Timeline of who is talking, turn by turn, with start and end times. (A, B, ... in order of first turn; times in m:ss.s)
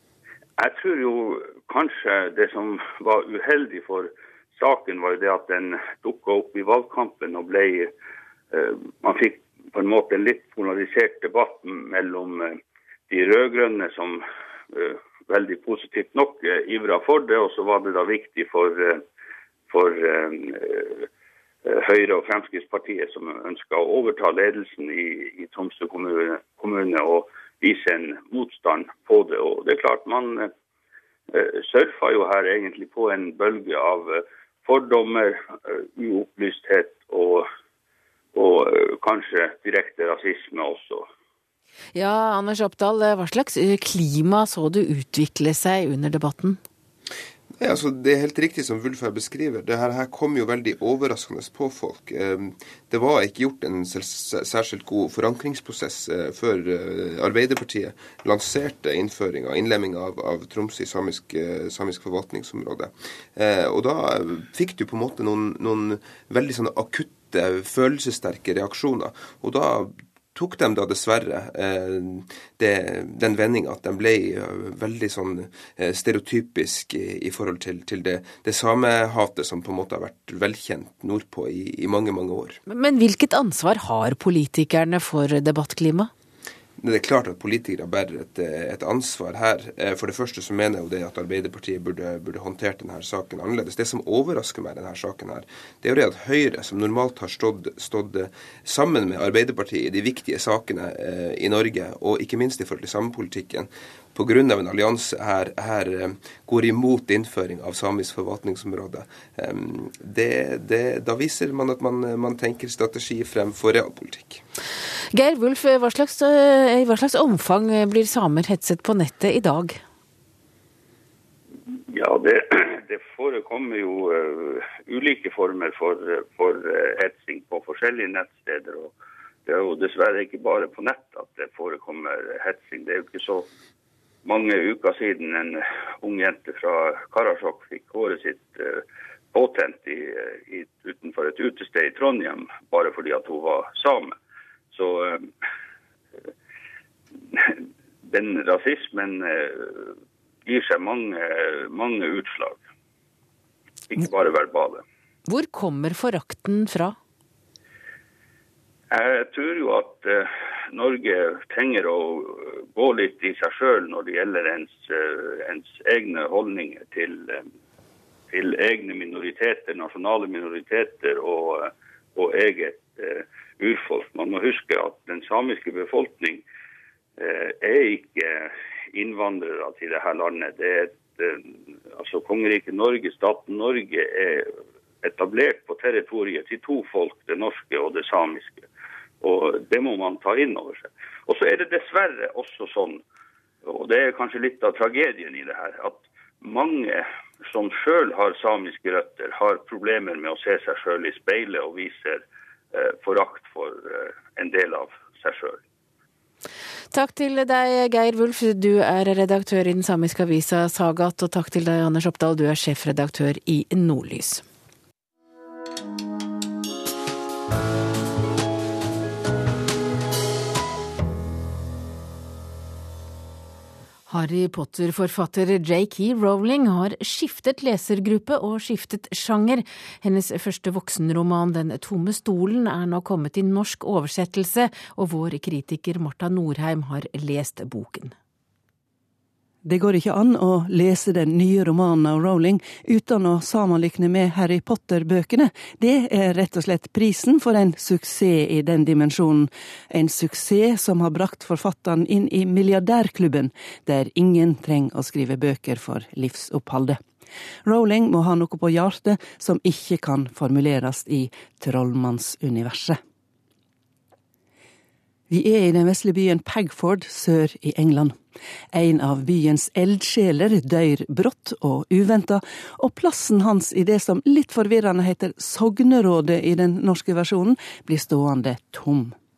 0:00.6-0:07.9 A
0:08.5-0:12.6 A
0:13.1-0:19.0 A
0:19.7-0:21.1 A
0:21.6-0:30.5 A
0:31.3-0:37.4 A
0:38.3-0:41.0 A
0:41.9-0:46.6 B
0:47.6-1:22.6 C
1:22.7-1:26.1 B
1:26.8-1:54.4 C
1:55.1-1:59.8 B
2:01.9-2:08.9 A
2:09.4-2:13.5 A
2:14.2-2:24.1 A
2:24.7-2:25.3 A
2:27.3-2:29.9 A
2:30.4-2:32.6 A
2:33.9-2:34.8 A
2:35.3-2:37.0 B
2:38.9-2:47.4 A
2:48.3-2:56.4 A
2:57.2-3:04.5 A
3:05.0-3:08.6 A
3:09.2-3:13.0 A
3:13.6-3:22.2 A
3:22.7-3:25.6 A
3:26.9-3:34.4 B
3:44.1-3:58.1 B
3:59.6-4:17.0 D
4:17.6-4:23.0 D
4:25.3-4:28.2 D
4:28.7-4:39.1 D